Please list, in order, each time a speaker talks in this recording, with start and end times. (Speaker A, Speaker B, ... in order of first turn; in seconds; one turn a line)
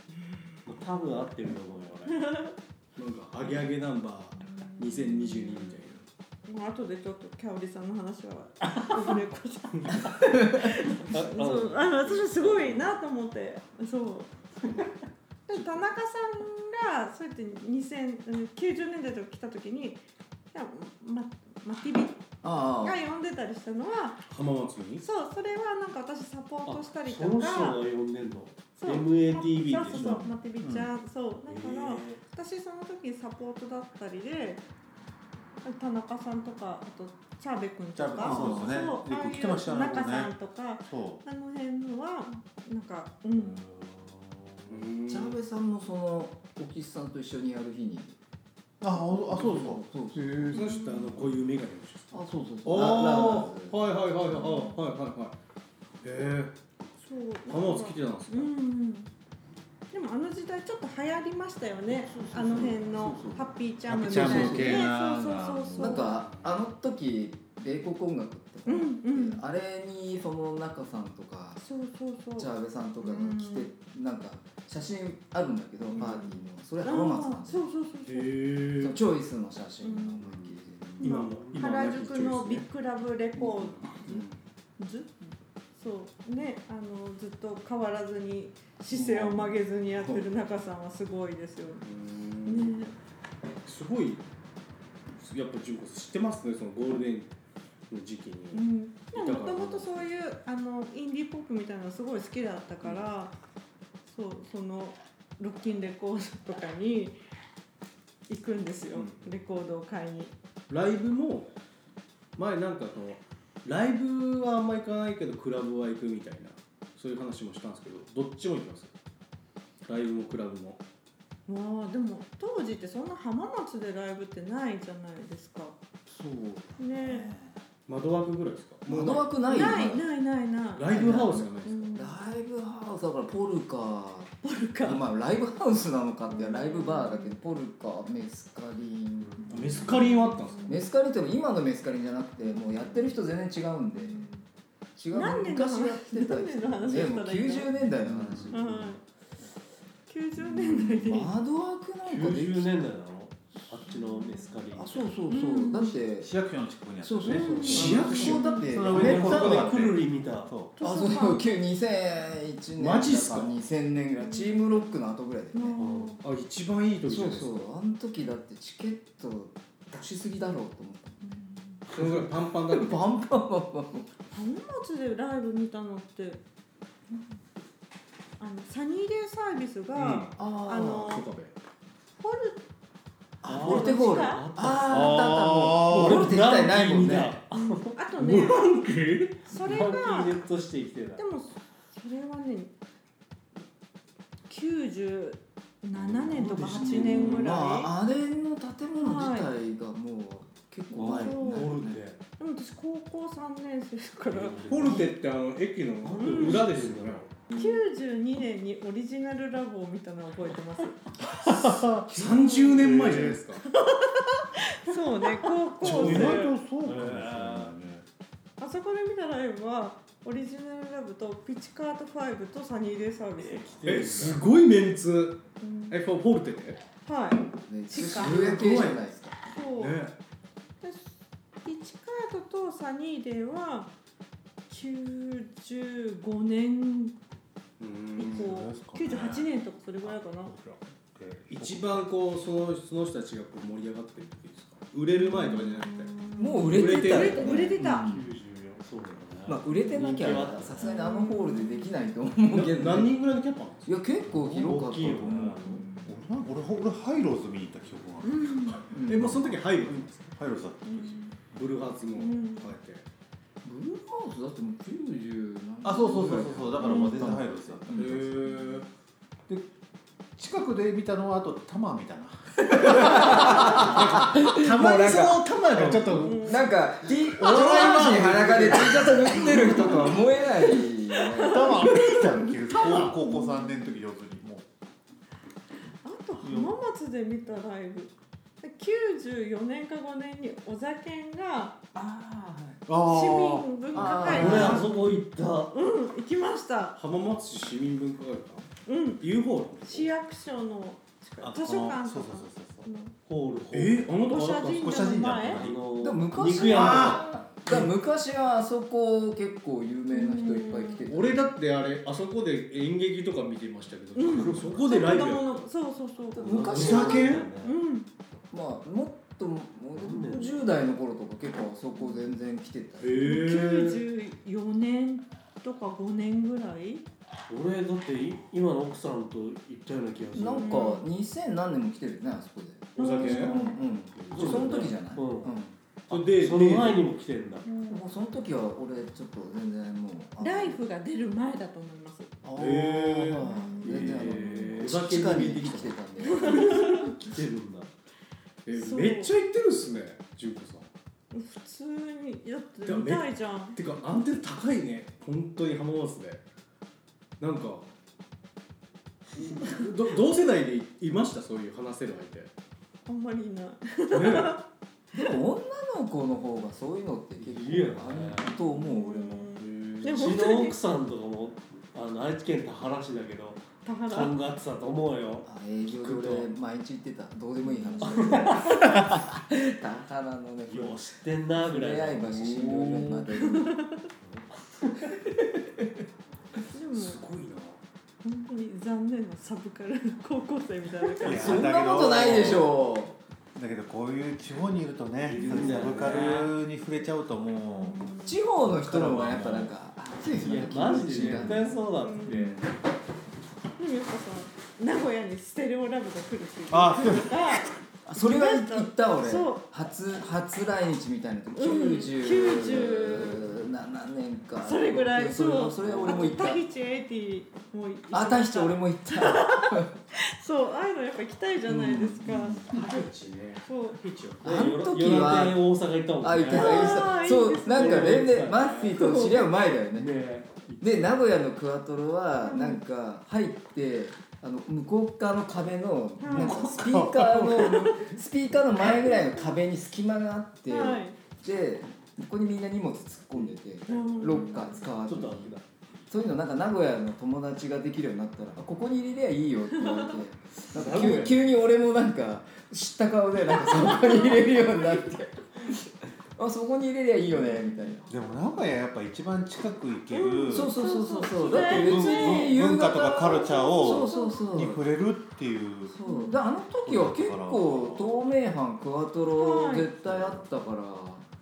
Speaker A: 0.7-2.2
Speaker B: 2.1-2.5
Speaker C: 3.0-6.0
Speaker B: 4.5-5.8
Speaker B: 6.5-14.3
Speaker A: 8.7-9.0
Speaker A: 10.2-13.0
Speaker B: 15.5-20.0
Speaker B: 20.5-22.2
Speaker D: 22.4-23.0
Speaker B: 22.8-24.2
Speaker C: 24.3-25.1
Speaker B: 25.0-27.8
Speaker A: 26.6-30.3
Speaker B: 28.8-34.6
Speaker E: 30.6-30.9
Speaker A: 31.5-32.2
Speaker B: 35.6-43.6
Speaker E: 38.0-40.3
Speaker D: 38.2-38.8
Speaker E: 40.8-41.2
Speaker A: 43.4-44.8
Speaker C: 44.7-45.4
Speaker D: 45.0-48.2
Speaker E: 48.8-49.8
Speaker D: 48.9-50.6
Speaker C: 50.2-55.3
Speaker B: 50.5-51.2
Speaker D: 52.1-53.8
Speaker B: 54.3-54.8
Speaker C: 56.0-56.5
Speaker B: 57.0-59.1
Speaker C: 57.5-58.5
Speaker B: 59.9-66.1
Speaker D: 62.1-63.5
Speaker E: 63.9-66.1
Speaker D: 64.1-64.9
Speaker D: 65.8-71.6
Speaker C: 66.2-66.5
Speaker B: 68.7-69.4
Speaker B: 71.6-72.5
Speaker D: 72.4-77.7
Speaker B: 73.0-73.7
Speaker C: 75.9-76.3
Speaker B: 76.8-78.3
Speaker C: 78.0-79.0
Speaker D: 78.8-81.0
Speaker B: 79.8-80.2
Speaker A: 80.3-81.8
Speaker C: 81.0-82.7
Speaker B: 81.0-84.2
Speaker D: 83.4-84.3
Speaker C: 83.8-84.2
Speaker B: 84.8-91.8
Speaker D: 88.9-90.2
Speaker C: 91.8-92.7
Speaker B: 92.5-92.9
Speaker C: 93.7-94.2
Speaker C: 95.2-97.3
Speaker C: 97.9-100.1
Speaker B: 98.5-103.3
Speaker B: 104.1-107.2
Speaker B: 108.3-110.3
Speaker C: 109.0-109.3
Speaker C: 110.7-111.5
Speaker C: 112.4-118.9
Speaker C: 119.8-120.8
Speaker B: 121.5-125.8
Speaker D: 126.1-127.5
Speaker B: 126.8-127.3
Speaker C: 127.9-129.3
Speaker D: 128.9-130.0
Speaker B: 129.5-132.2
Speaker C: 130.8-131.8
Speaker D: 130.8-140.0
Speaker B: 134.4-135.0
Speaker B: 136.3-137.3
Speaker A: 139.2-139.5
Speaker C: 139.5-140.7
Speaker B: 139.9-140.8
Speaker D: 140.7-144.3
Speaker B: 144.1-144.4
Speaker D: 145.0-148.7
Speaker B: 145.1-147.7
Speaker A: 148.1-148.9
Speaker B: 148.5-149.0
Speaker B: 150.1-151.3
Speaker D: 150.4-152.7
Speaker A: 152.1-155.1
Speaker D: 154.7-156.3
Speaker B: 155.3-156.0
Speaker E: 156.2-160.7
Speaker D: 157.0-159.9
Speaker B: 157.2-158.7
Speaker C: 157.7-158.5
Speaker A: 157.8-158.1
Speaker A: 158.8-160.5
Speaker B: 160.8-161.6
Speaker D: 160.8-165.8
Speaker C: 162.8-163.6
Speaker B: 164.3-164.5
Speaker B: 165.5-166.2
Speaker A: 165.8-166.2
Speaker C: 166.2-167.7
Speaker D: 167.1-174.1
Speaker B: 171.3-171.8
Speaker C: 171.9-173.0
Speaker B: 174.3-176.4
Speaker B: 178.4-181.2
Speaker C: 179.9-180.4
Speaker D: 180.4-181.2
Speaker C: 181.0-181.5
Speaker B: 182.2-182.6
Speaker D: 183.4-187.4
Speaker A: 183.4-188.0
Speaker B: 183.6-184.5
Speaker E: 184.9-186.4
Speaker B: 187.5-188.8
Speaker C: 188.2-189.4
Speaker B: 189.4-190.4
Speaker A: 189.5-191.2
Speaker B: 191.2-192.7
Speaker B: 194.5-197.9
Speaker A: 195.9-197.4
Speaker D: 196.5-202.0
Speaker B: 199.0-199.5
Speaker A: 200.9-202.2
Speaker B: 201.0-201.8
Speaker B: 202.4-204.6
Speaker A: 204.2-205.2
Speaker C: 204.7-207.3
Speaker A: 206.0-207.6
Speaker B: 206.2-206.6
Speaker B: 207.5-211.4
Speaker C: 211.4-213.6
Speaker B: 212.2-212.8
Speaker E: 212.8-213.4
Speaker B: 213.7-216.5
Speaker C: 215.8-216.4
Speaker E: 215.8-218.0
Speaker A: 215.9-217.8
Speaker B: 218.6-223.7
Speaker A: 223.4-224.4
Speaker C: 223.8-226.8
Speaker B: 225.6-226.0
Speaker B: 227.1-228.8
Speaker D: 227.7-229.3
Speaker C: 228.0-229.0
Speaker B: 229.5-230.0
Speaker C: 229.8-230.1
Speaker B: 230.8-233.9
Speaker B: 234.7-237.2
Speaker C: 237.8-238.5
Speaker B: 238.2-240.6
Speaker E: 238.3-239.5
Speaker E: 240.0-242.1
Speaker C: 241.5-247.6
Speaker B: 245.2-248.1
Speaker D: 246.4-248.3
Speaker A: 246.7-250.9
Speaker D: 249.5-253.1
Speaker B: 250.8-251.9
Speaker C: 252.5-253.9
Speaker D: 253.8-255.9
Speaker A: 254.3-255.9
Speaker E: 255.1-259.5
Speaker B: 258.2-258.8
Speaker C: 258.8-260.3
Speaker D: 258.9-259.5
Speaker E: 260.4-261.2
Speaker B: 260.9-261.3
Speaker C: 261.6-263.0
Speaker B: 262.2-262.8
Speaker D: 263.6-268.3
Speaker E: 265.8-268.4
Speaker B: 266.8-267.3
Speaker C: 267.9-268.9
Speaker B: 268.6-268.8
Speaker E: 270.4-274.3
Speaker D: 272.6-275.4
Speaker C: 272.8-280.2
Speaker E: 275.8-276.3
Speaker B: 276.2-276.6
Speaker D: 276.4-281.9
Speaker B: 280.4-284.0
Speaker E: 281.4-284.6
Speaker C: 282.8-283.1
Speaker B: 286.0-291.8
Speaker E: 286.4-286.7
Speaker D: 291.9-292.8
Speaker E: 292.9-293.9
Speaker B: 293.0-295.2
Speaker D: 293.9-294.9
Speaker A: 294.1-295.7
Speaker B: 295.7-297.0
Speaker C: 297.0-298.7
Speaker B: 298.9-299.2
Speaker C: 299.2-300.1
Speaker B: 299.8-303.1
Speaker E: 301.4-302.9
Speaker A: 303.3-304.1
Speaker C: 303.7-305.1
Speaker B: 304.3-305.7
Speaker E: 304.7-305.8
Speaker A: 305.6-307.4
Speaker D: 306.0-311.4
Speaker C: 306.7-307.1
Speaker E: 306.8-307.1
Speaker B: 310.1-311.0
Speaker C: 311.1-315.6
Speaker B: 314.1-317.0
Speaker A: 314.3-314.9
Speaker D: 316.3-317.4
Speaker A: 316.4-317.8
Speaker C: 316.8-317.5
Speaker B: 317.6-318.1
Speaker D: 318.5-323.2
Speaker A: 320.0-320.6
Speaker C: 323.0-324.0
Speaker B: 323.2-327.1
Speaker A: 327.5-330.8
Speaker D: 330.3-335.7
Speaker B: 330.6-331.0
Speaker A: 333.0-335.6
Speaker C: 333.0-333.6
Speaker B: 333.0-333.8
Speaker C: 334.3-334.8
Speaker A: 336.1-337.7
Speaker C: 336.1-337.1
Speaker B: 337.7-338.1
Speaker D: 337.8-340.8
Speaker B: 340.4-342.3
Speaker D: 342.4-347.0
Speaker C: 342.6-343.5
Speaker B: 343.4-344.8
Speaker A: 343.8-347.9
Speaker B: 346.3-347.1
Speaker C: 348.6-350.9
Speaker B: 348.7-349.3
Speaker B: 351.3-353.8
Speaker C: 352.9-356.4
Speaker C: 357.4-357.9
Speaker C: 359.3-362.5
Speaker B: 363.1-364.6
Speaker C: 364.1-364.6
Speaker D: 365.1-369.5
Speaker A: 367.4-368.6
Speaker B: 368.7-370.8
Speaker C: 369.6-370.2
Speaker A: 370.0-375.5
Speaker B: 373.9-374.3
Speaker D: 375.4-383.8
Speaker A: 376.0-376.5
Speaker B: 377.6-378.4
Speaker A: 378.0-379.1
Speaker A: 380.7-383.3
Speaker B: 383.4-384.1
Speaker A: 384.2-385.1
Speaker D: 385.4-385.9
Speaker B: 386.7-387.2
Speaker C: 386.9-387.8
Speaker B: 388.2-391.7
Speaker D: 391.2-393.2
Speaker E: 391.2-392.8
Speaker E: 393.6-399.7
Speaker A: 395.2-396.5
Speaker B: 395.3-396.3
Speaker C: 396.1-396.4
Speaker B: 397.7-398.4
Speaker D: 398.2-402.7
Speaker A: 400.2-402.7
Speaker B: 402.0-402.6
Speaker B: 403.8-409.7
Speaker E: 406.7-407.7
Speaker D: 408.1-416.6
Speaker B: 411.6-413.4
Speaker B: 414.6-423.1
Speaker A: 415.8-416.3
Speaker D: 418.1-419.9
Speaker D: 421.7-422.9
Speaker C: 422.7-424.6
Speaker B: 423.6-424.0
Speaker D: 424.4-425.6
Speaker A: 424.4-429.2
Speaker D: 426.2-430.1
Speaker B: 426.5-428.2
Speaker B: 429.0-429.5
Speaker A: 429.9-431.2
Speaker D: 430.8-445.5
Speaker B: 432.4-432.8
Speaker B: 436.2-436.7
Speaker E: 436.4-437.7
Speaker B: 437.7-437.9
Speaker B: 440.7-441.2
Speaker B: 443.9-444.8
Speaker A: 443.9-445.6
Speaker D: 446.1-458.1
Speaker B: 449.7-450.2
Speaker A: 450.7-451.4
Speaker B: 453.7-455.0
Speaker E: 458.1-460.7
Speaker B: 460.1-462.6
Speaker D: 460.5-464.8
Speaker E: 461.5-466.0
Speaker B: 463.5-464.4
Speaker D: 466.0-471.3
Speaker B: 466.0-466.4
Speaker E: 466.8-468.1
Speaker B: 469.4-469.9